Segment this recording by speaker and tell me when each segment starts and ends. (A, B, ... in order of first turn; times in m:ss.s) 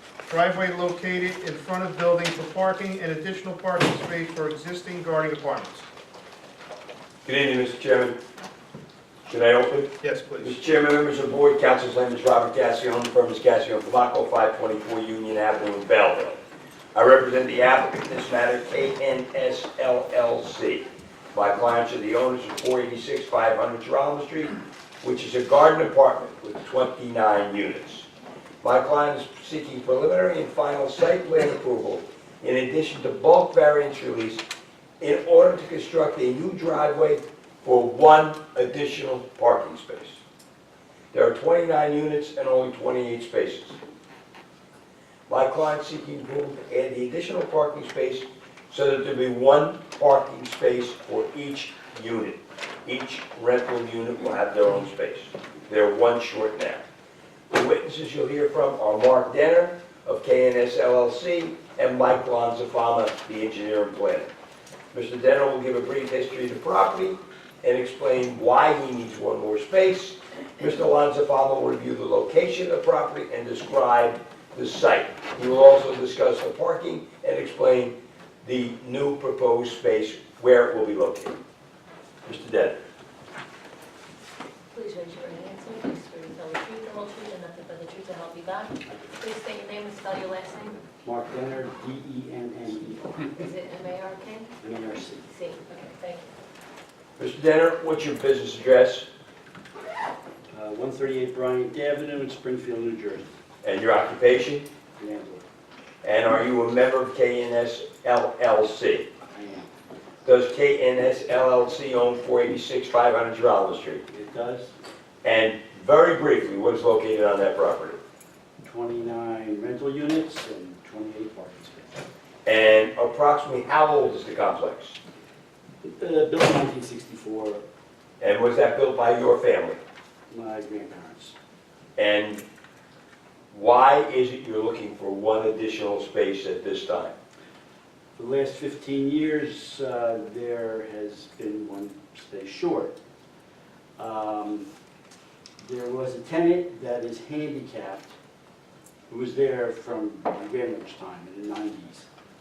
0:00.2-0:05.9 A
0:07.2-0:08.2 B
0:09.2-0:16.4 B
0:10.0-0:10.6 A
0:16.9-0:28.1 B
0:28.6-0:34.4 B
0:35.0-0:40.2 B
0:41.1-0:43.8 B
0:45.3-0:56.8 B
0:57.5-1:04.3 B
1:04.9-1:21.4 B
1:22.2-1:22.8 B
1:24.7-1:30.8 C
1:31.0-1:33.2 D
1:33.1-1:34.5 C
1:34.6-1:35.3 D
1:35.2-1:36.3 C
1:37.2-1:39.1 B
1:40.5-1:43.3 D
1:43.6-1:44.7 B
1:45.0-1:45.4 D
1:46.0-1:49.1 B
1:49.3-1:49.7 D
1:50.2-1:54.0 B
1:54.1-1:54.7 D
1:55.2-1:58.0 B
1:58.6-2:02.0 D
2:02.4-2:05.0 B
2:05.8-2:07.6 D
2:08.2-2:09.8 B
2:10.3-2:11.3 D
2:12.0-2:12.4 B
2:13.5-2:17.2 B
2:18.2-2:23.0 D
2:24.0-2:24.7 D
2:25.6-2:28.1 D
2:29.1-2:32.1 D